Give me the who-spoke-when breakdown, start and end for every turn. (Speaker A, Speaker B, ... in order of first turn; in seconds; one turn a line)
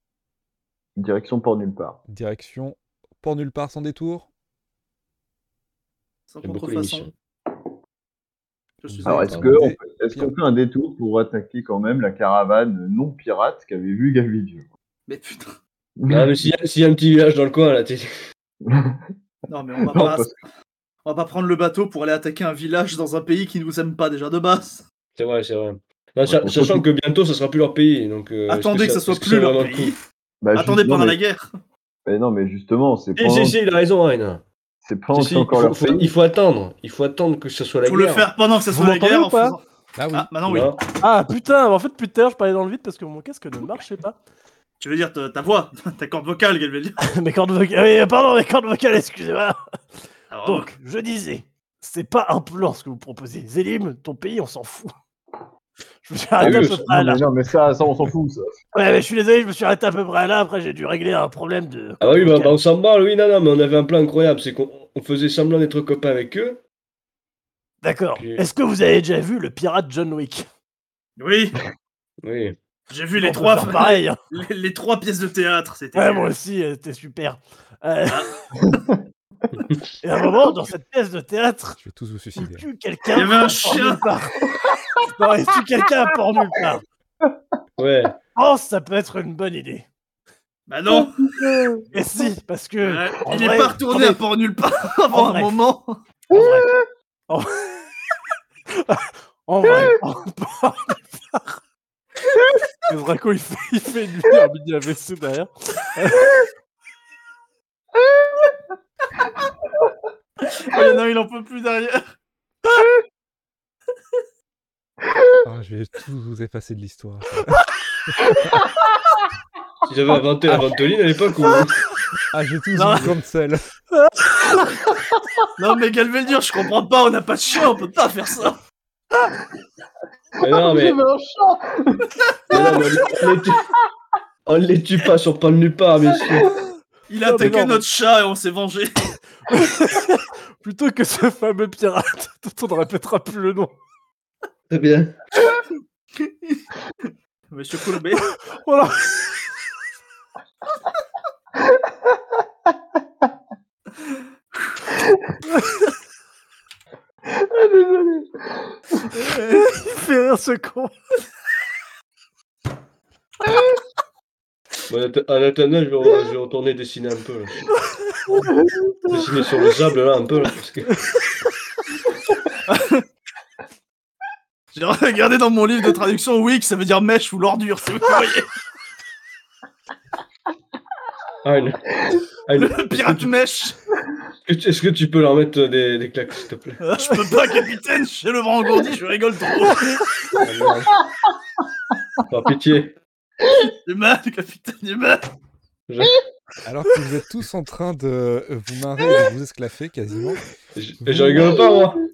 Speaker A: 0.9-2.0
Speaker B: 2.1-4.3
Speaker C: 6.3-7.1
Speaker D: 6.4-7.1
Speaker C: 8.8-9.3
Speaker B: 8.8-10.3
Speaker D: 9.0-9.5
Speaker A: 9.1-14.7
Speaker C: 15.1-15.5
Speaker A: 16.0-16.5
Speaker D: 16.1-18.1
Speaker A: 18.6-19.0
Speaker C: 19.5-20.4
Speaker A: 19.8-20.3
Speaker C: 21.0-24.8
Speaker D: 25.1-29.9
Speaker A: 26.3-26.8
Speaker C: 28.5-30.0
Speaker A: 30.4-31.2
Speaker C: 30.5-31.4
Speaker A: 32.0-33.6
Speaker D: 33.2-34.4
Speaker A: 34.8-36.1
Speaker D: 35.1-38.3
Speaker C: 37.8-39.6
Speaker E: 38.7-39.6
Speaker B: 40.0-40.3
Speaker C: 40.1-40.8
Speaker D: 40.5-40.8
Speaker E: 41.0-44.2
Speaker C: 44.8-47.0
Speaker E: 47.0-49.6
Speaker C: 50.3-50.7
Speaker E: 50.4-54.9
Speaker E: 56.0-57.2
Speaker A: 56.4-58.5
Speaker E: 58.7-62.6
Speaker D: 62.0-66.6
Speaker E: 67.8-70.5
Speaker C: 71.2-71.6
Speaker D: 72.2-72.5
Speaker C: 72.9-76.3
Speaker E: 73.2-74.2
Speaker E: 75.9-78.3
Speaker C: 78.1-78.8
Speaker E: 80.0-81.8
Speaker B: 81.8-82.7
Speaker E: 82.4-84.5
Speaker C: 83.1-84.0
Speaker A: 84.6-84.8
Speaker E: 85.0-86.8
Speaker D: 87.8-88.2
Speaker E: 88.3-89.8
Speaker C: 90.7-91.2
Speaker A: 90.9-91.8
Speaker E: 91.9-94.2
Speaker C: 92.8-96.0
Speaker E: 95.1-95.5
Speaker E: 96.3-96.7
Speaker A: 96.3-96.8
Speaker E: 97.3-97.9
Speaker E: 98.7-101.5
Speaker E: 102.9-106.4
Speaker C: 110.4-112.0
Speaker B: 115.4-118.6
Speaker D: 119.8-121.8
Speaker B: 122.3-123.6
Speaker C: 122.7-123.1
Speaker E: 124.0-124.6
Speaker C: 125.6-128.6
Speaker D: 130.4-131.0
Speaker A: 130.4-133.6
Speaker D: 132.5-133.7
Speaker D: 134.4-136.5
Speaker C: 137.1-139.1
Speaker E: 137.2-137.8
Speaker E: 139.5-143.7
Speaker D: 144.7-145.2
Speaker C: 146.2-146.6
Speaker C: 147.5-148.3
Speaker E: 148.5-149.2
Speaker E: 155.5-155.8
Speaker A: 157.2-158.8
Speaker C: 159.1-159.7
Speaker E: 159.1-160.9
Speaker D: 164.9-167.7
Speaker D: 169.1-171.0
Speaker C: 172.7-173.0
Speaker C: 174.7-178.5
Speaker D: 181.4-183.3
Speaker C: 182.6-183.8
Speaker D: 184.4-186.9
Speaker C: 186.8-190.1
Speaker D: 190.4-191.0
Speaker D: 192.3-192.9
Speaker C: 193.6-195.3
Speaker D: 195.9-196.1
Speaker B: 196.6-200.4
Speaker D: 200.7-202.0
Speaker B: 201.0-201.5
Speaker A: 201.4-201.9